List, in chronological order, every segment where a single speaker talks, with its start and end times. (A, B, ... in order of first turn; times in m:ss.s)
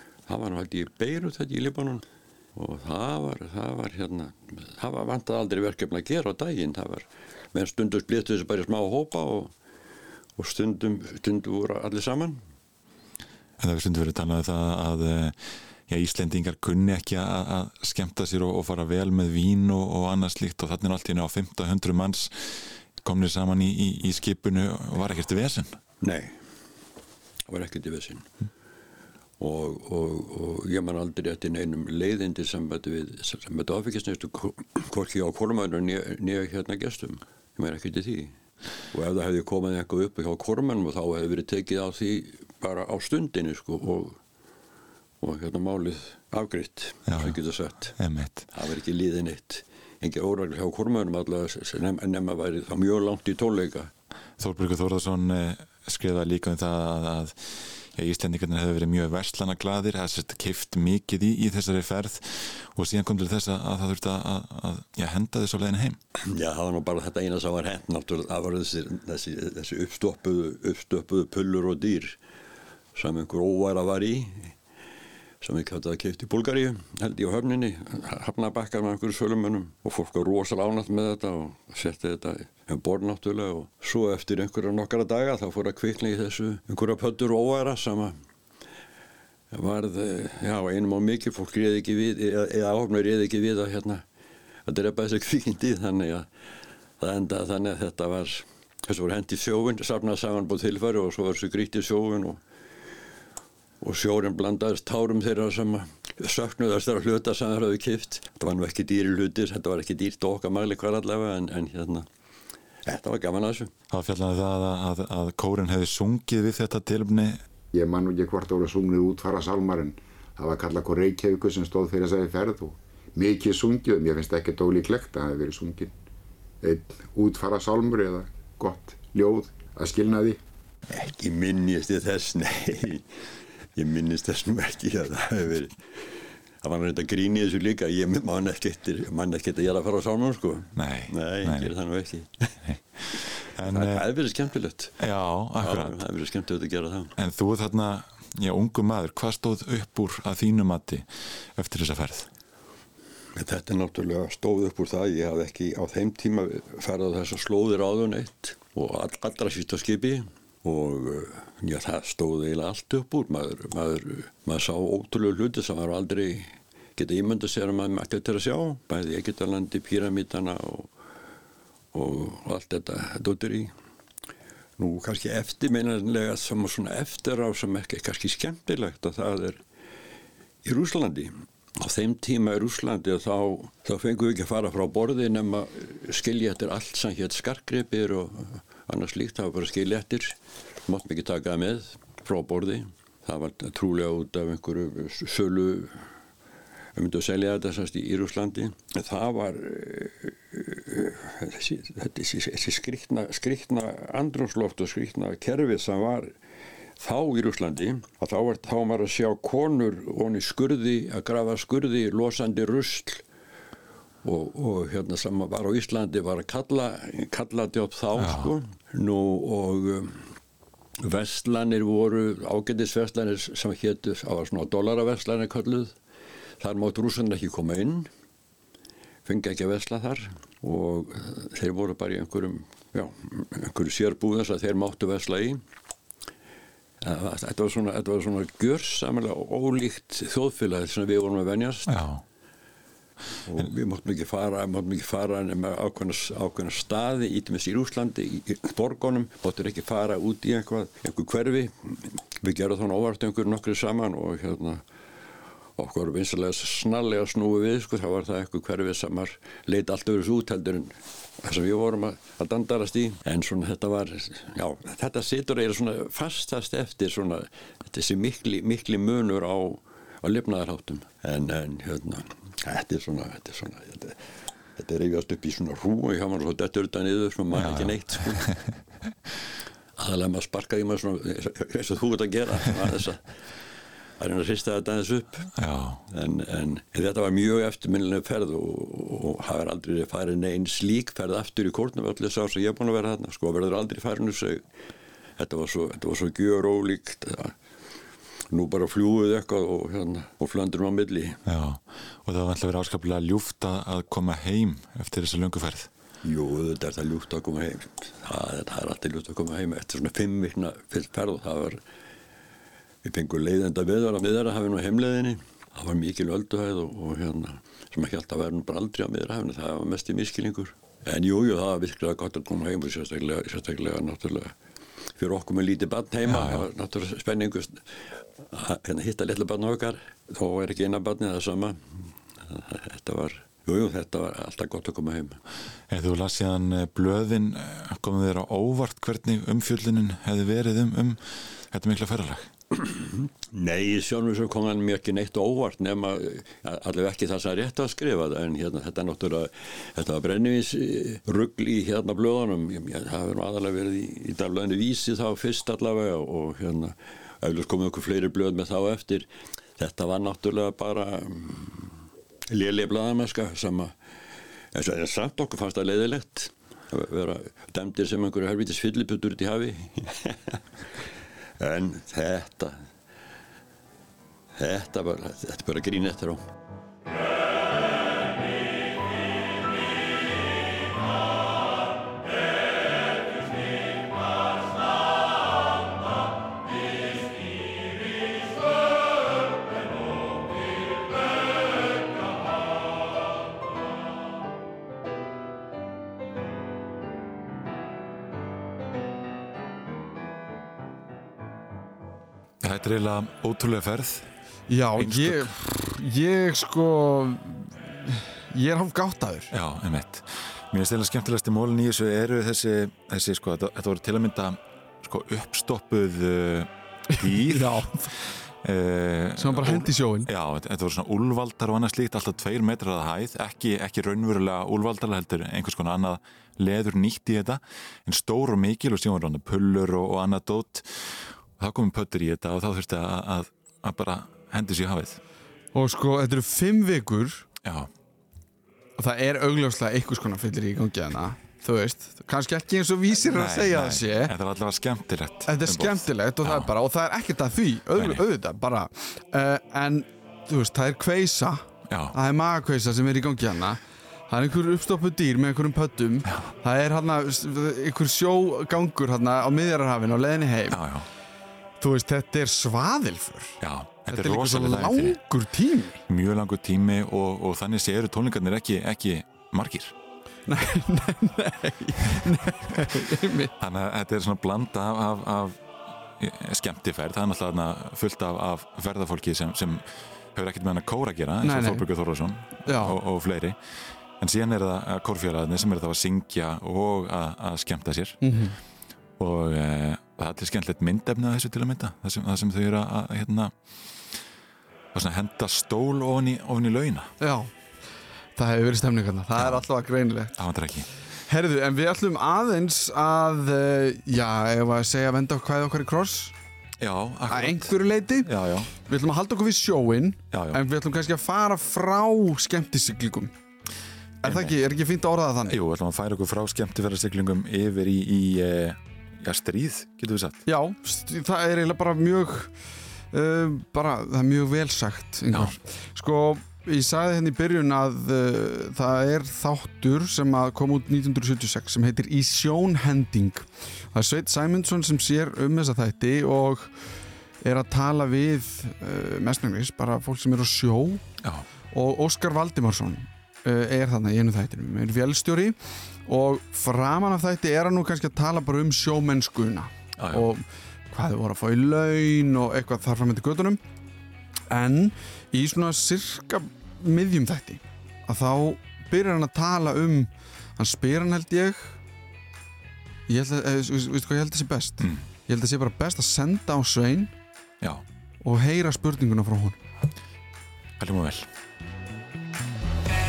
0:00.3-0:02.0 A
0:02.6-0:09.5 A
0:10.4-0:12.4 A
0:13.6-0:25.8 B
0:26.0-0:26.4 A
0:27.5-0:28.3 A
0:29.4-0:38.3 A
0:38.9-0:44.2 A
0:45.2-0:48.0 A
0:47.1-0:47.4 B
0:48.0-0:48.5 B
0:48.5-0:53.9 A
0:54.4-1:06.0 B
1:06.2-1:12.2 A
1:12.9-1:14.5 A
1:15.4-1:28.1 A
1:29.5-1:34.0 A
1:34.6-1:36.3 A
1:37.0-1:42.4 A
1:43.8-1:52.1 A
1:52.8-1:53.7 A
1:53.9-1:57.4 B
1:57.7-2:05.9 C
2:06.6-2:10.4 C
2:10.9-2:13.0 A
2:13.8-2:16.0 A
2:16.6-2:22.6 A
2:20.7-2:21.7 B
2:22.6-2:24.0 B
2:23.6-2:25.0 A
2:25.0-2:26.0 B
2:25.6-2:27.1 A
2:27.2-2:32.3 B
2:33.4-2:50.9 A
2:51.9-2:53.7 A
2:54.8-2:59.6 A
3:00.6-3:10.3 A
3:10.9-3:16.0 A
3:17.0-3:26.3 A
3:27.0-3:33.2 A
3:34.2-3:40.3 A
3:38.2-3:38.5 B
3:41.0-3:45.9 A
3:46.6-3:48.1 A
3:49.2-3:55.6 A
3:57.0-4:02.0 A
4:01.9-4:02.2 B
4:03.4-4:14.8 A
4:15.8-4:34.2 A
4:34.8-4:38.5 A
4:37.5-4:38.7 B
4:40.0-4:43.3 A
4:44.2-4:45.5 A
4:45.6-4:46.0 B
4:46.1-4:54.6 A
4:55.4-4:57.6 A
4:58.5-5:01.4 A
5:01.4-5:05.9 B
5:06.2-5:11.8 A
5:13.0-5:24.5 A
5:25.2-5:31.8 A
5:26.2-5:26.6 B
5:32.5-5:35.4 A
5:35.9-5:42.5 B
5:42.8-5:59.2 A
5:59.8-6:01.9 A
6:02.5-6:03.9 A
6:04.7-6:10.6 A
6:11.6-6:12.8 A
6:14.6-6:16.4 A
6:42.6-6:44.3 B
6:44.7-6:49.5 D
6:45.0-6:45.5 B
6:49.5-7:15.2 B
6:57.1-6:58.2 D
6:59.4-7:00.3 D
7:15.7-7:17.4 D
7:17.6-7:17.9 B
7:19.0-7:24.3 D
7:23.2-7:26.7 B
7:25.5-7:40.8 D
7:27.9-7:28.2 B
7:31.9-7:32.2 B
7:36.2-7:36.5 B
7:40.7-7:41.1 B
7:41.8-7:46.0 D
7:43.6-7:45.2 B
7:46.1-7:49.9 B
7:50.5-7:53.5 D
7:53.6-8:08.2 B
8:01.4-8:01.8 D
8:02.6-8:03.0 D
8:08.2-8:08.6 D
8:09.2-8:14.2 B
8:14.9-8:17.1 B
8:17.2-8:17.5 D
8:18.4-8:20.4 D
8:19.4-8:19.6 B
8:20.3-8:20.9 B
8:21.3-8:26.3 D
8:26.8-8:28.7 B
8:27.3-8:33.3 D
8:30.3-8:30.6 B
8:34.2-8:35.6 D
8:34.2-8:34.6 B
8:35.5-8:40.4 B
8:40.4-8:42.5 D
8:43.1-8:56.7 D
8:57.4-9:01.0 D
9:01.7-9:13.6 D
9:10.0-9:10.3 B
9:14.5-9:21.8 D
9:23.1-9:27.1 D
9:24.8-9:25.0 B
9:28.2-9:29.6 D
9:30.8-9:31.3 B